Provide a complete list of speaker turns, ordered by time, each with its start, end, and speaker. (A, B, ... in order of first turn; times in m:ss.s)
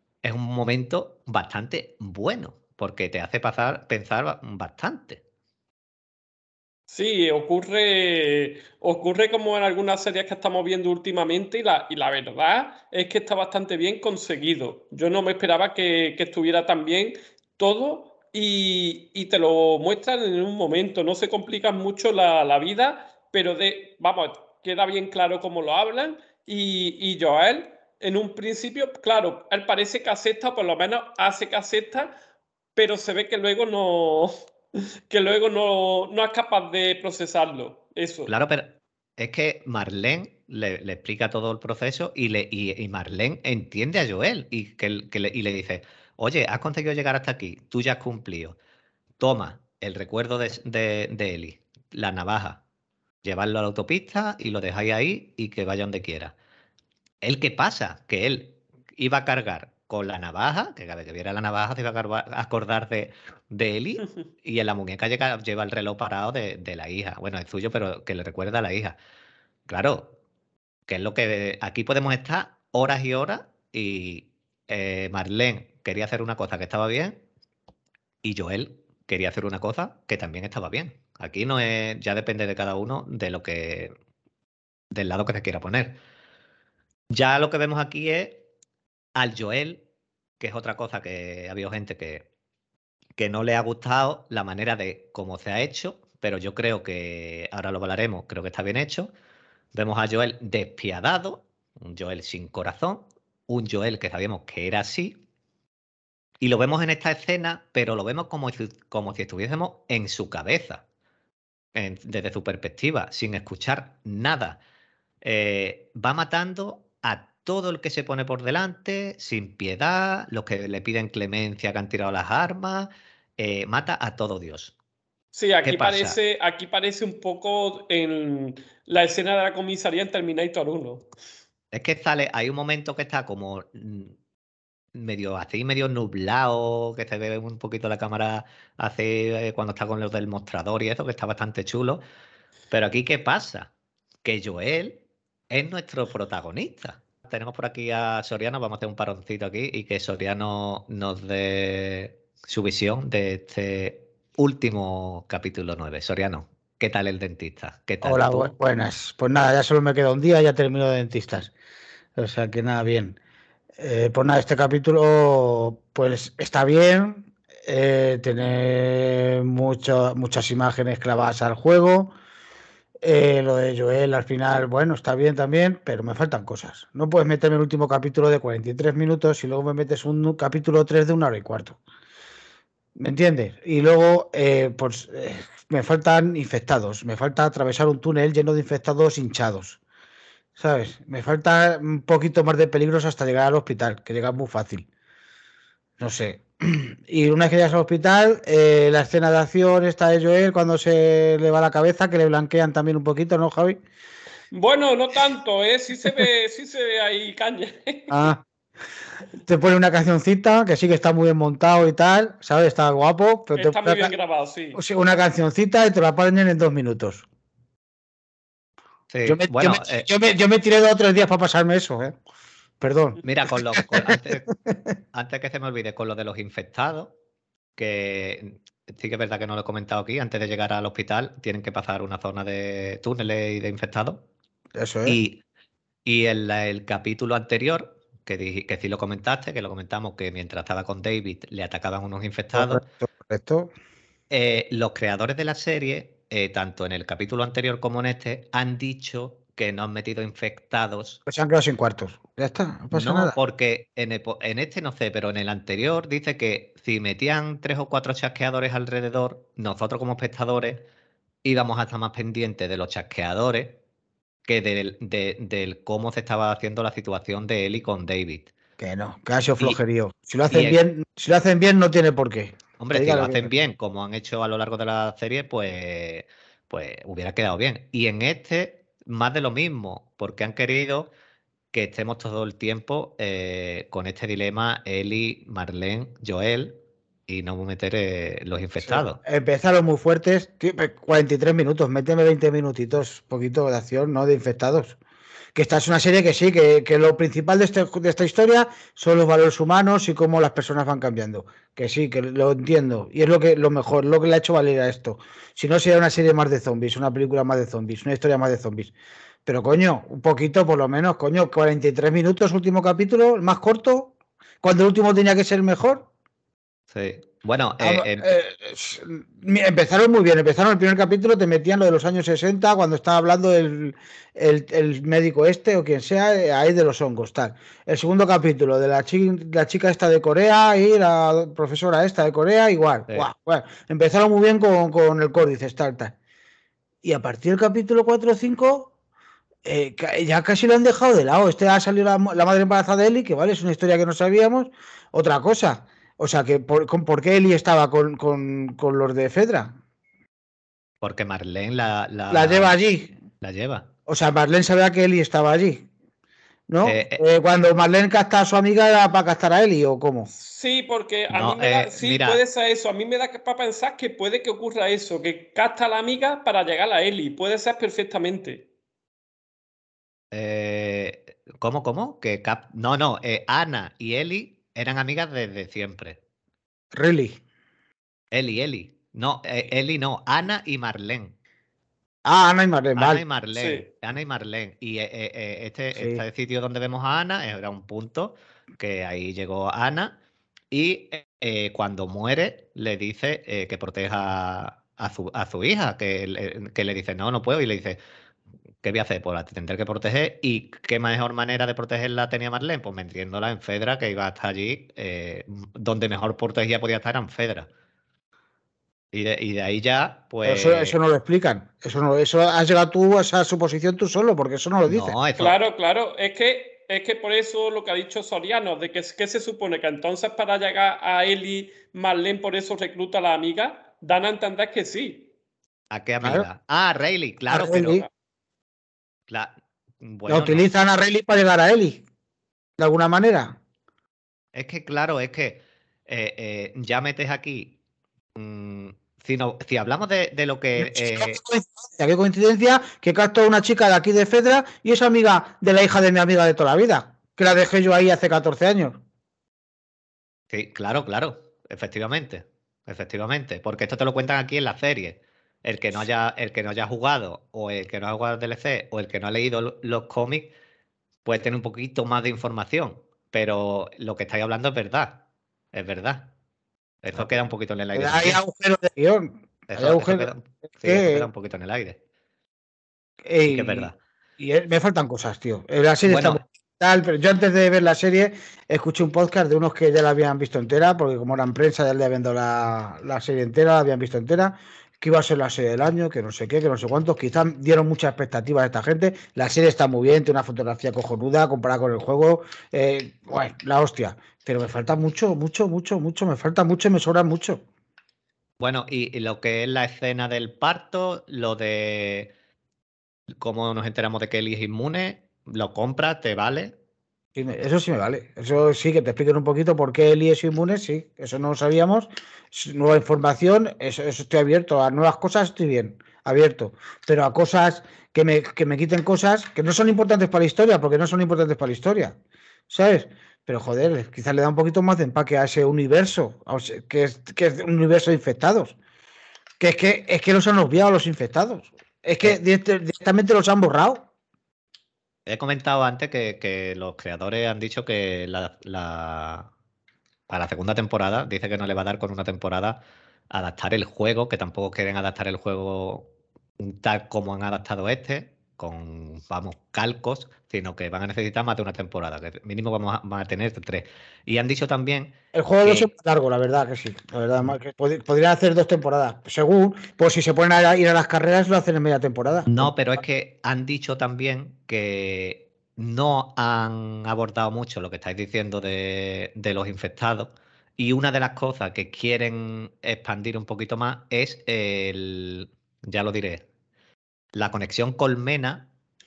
0:00.2-0:05.2 A
0:06.9-0:32.2 B
0:32.8-0:38.3 B
0:38.3-0:48.6 A
0:49.2-0:52.6 A
0:53.2-0:56.3 A
0:57.2-1:09.0 A
1:09.7-1:10.2 A
1:10.9-1:17.2 A
1:18.2-1:23.9 A
1:24.9-1:26.0 A
1:27.1-1:28.4 A
1:29.2-1:29.8 A
1:30.4-1:32.3 A
1:33.2-1:39.1 A
1:39.7-1:45.2 A
1:46.4-1:50.8 A
1:51.8-1:54.6 A
1:55.2-2:04.7 A
2:05.3-2:11.0 B
2:05.6-2:06.2 A
2:11.7-2:14.1 A
2:14.9-2:22.0 A
2:22.7-2:23.7 A
2:24.2-2:38.5 A
2:38.0-2:41.5 C
2:42.2-2:43.2 C
2:43.8-2:52.1 C
2:53.0-3:01.8 C
3:03.0-3:09.8 C
3:10.6-3:14.9 C
3:16.0-3:23.8 C
3:24.5-3:28.3 B
3:28.1-3:28.4 C
3:29.4-3:34.1 C
3:33.5-3:34.8 B
3:34.8-3:37.3 C
3:39.1-3:40.1 A
3:39.2-3:42.2 C
3:42.8-3:44.8 C
3:43.2-3:44.5 A
3:45.1-3:47.1 A
3:47.8-3:54.2 A
3:54.8-3:55.2 C
3:55.1-3:55.4 A
3:56.0-4:02.8 A
4:02.5-4:03.7 C
4:04.3-4:11.2 A
4:11.3-4:13.4 C
4:12.9-4:20.8 A
4:21.4-4:23.8 A
4:24.5-4:28.5 A
4:28.8-4:33.5 C
4:30.5-4:30.8 A
4:32.8-4:41.1 A
4:41.7-4:49.2 A
4:48.8-4:55.0 C
4:55.6-5:08.9 C
5:09.5-5:16.1 C
5:16.9-5:18.3 A
5:17.8-5:36.1 C
5:37.0-5:38.9 C
5:39.6-5:49.8 C
5:51.0-5:52.8 A
5:52.3-5:53.1 C
5:53.4-5:53.9 A
5:54.1-5:55.9 C
5:56.7-6:00.3 C
5:56.8-5:57.2 A
6:00.4-6:08.6 B
6:01.3-6:02.4 A
6:10.3-6:16.2 A
6:16.9-6:17.4 C
6:18.3-6:21.4 A
6:22.2-6:23.2 C
6:23.0-6:30.1 A
6:23.6-6:23.9 B
6:25.9-6:26.2 C
6:30.7-6:38.0 A
6:38.8-6:47.7 A
6:49.1-6:51.0 A
6:50.4-6:55.1 C
6:54.8-6:55.6 A
6:55.4-7:05.3 B
7:05.9-7:08.1 A
7:07.5-7:08.1 C
7:09.3-7:10.6 A
7:10.3-7:12.0 C
7:12.8-7:13.6 C
7:14.5-7:17.8 A
7:18.4-7:21.4 A
7:20.8-7:29.0 C
7:30.5-7:40.5 A
7:41.2-7:46.3 A
7:47.0-7:48.4 A
7:48.0-7:51.3 C
7:49.7-7:52.0 A
7:53.2-8:17.6 C
7:53.5-7:54.0 A
7:56.1-7:56.4 A
8:18.6-8:22.3 A
8:23.4-8:26.7 A
8:27.4-8:42.2 C
8:42.7-8:48.8 C
8:49.6-8:54.0 C
8:55.3-8:59.5 A
9:00.3-9:02.8 A
9:03.3-9:06.1 A
9:06.6-9:15.9 A
9:15.3-9:22.7 C
9:22.5-9:36.4 A
9:37.4-9:38.7 A